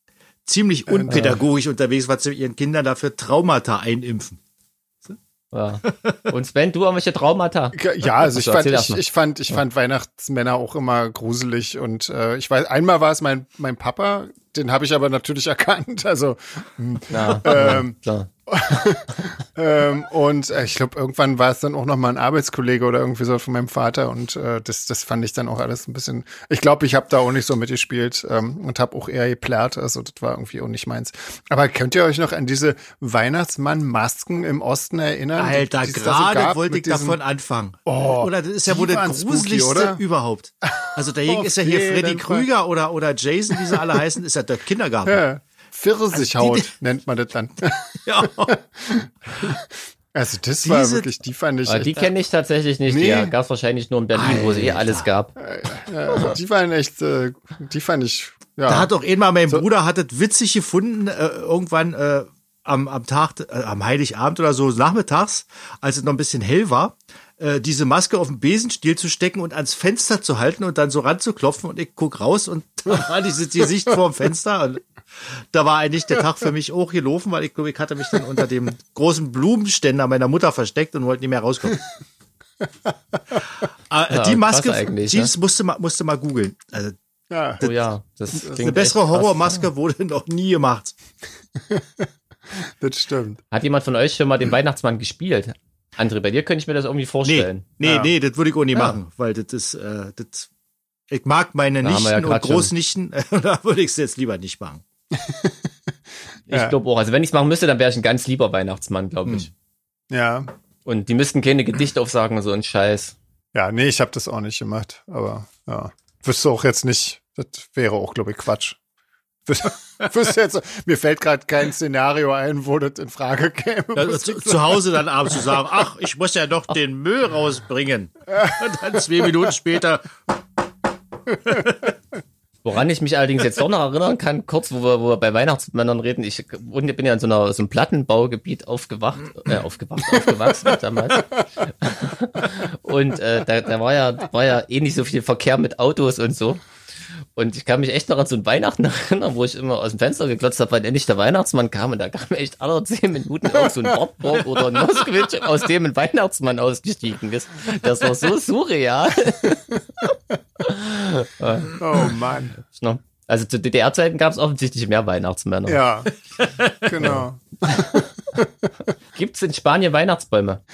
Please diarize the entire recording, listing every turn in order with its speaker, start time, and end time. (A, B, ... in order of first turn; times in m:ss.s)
0:00.4-0:04.4 A
0:00.9-0:01.4 B
0:01.1-0:01.4 C
0:05.5-0:09.0 C
0:07.7-0:37.2 B
0:17.1-0:18.3 C
0:35.4-0:45.2 A
0:37.8-0:40.0 B
0:40.8-0:42.5 B
0:43.5-0:44.0 B
0:45.0-0:52.1 B
0:46.1-0:46.7 A
0:48.0-0:48.6 A
0:50.6-0:51.1 A
0:51.6-0:55.3 C
0:52.9-0:53.3 B
0:54.1-0:55.1 A
0:55.4-0:58.9 B
0:58.7-1:21.8 A
1:23.9-1:27.0 A
1:24.1-1:25.3 C
1:27.3-1:27.6 B
1:27.6-1:30.9 A
1:27.6-1:29.7 C
1:31.6-1:33.4 B
1:33.5-1:37.7 C
1:37.2-1:40.5 A
1:37.8-1:38.1 B
1:41.1-1:44.8 A
1:41.8-1:42.7 C
1:45.1-1:45.6 B
1:46.5-1:49.5 C
1:46.5-1:46.7 B
1:50.1-1:50.5 B
1:50.8-1:53.2 C
1:53.5-1:58.8 B
1:59.4-2:04.8 B
2:03.9-2:10.1 A
2:11.5-2:11.9 A
2:12.6-2:26.6 C
2:27.4-2:40.0 C
2:40.6-2:42.1 C
2:41.8-2:42.6 B
2:42.6-2:45.8 C
2:45.6-2:46.1 B
2:46.4-2:46.9 A
2:46.8-2:48.7 B
2:47.0-2:48.0 C
2:49.1-2:50.6 C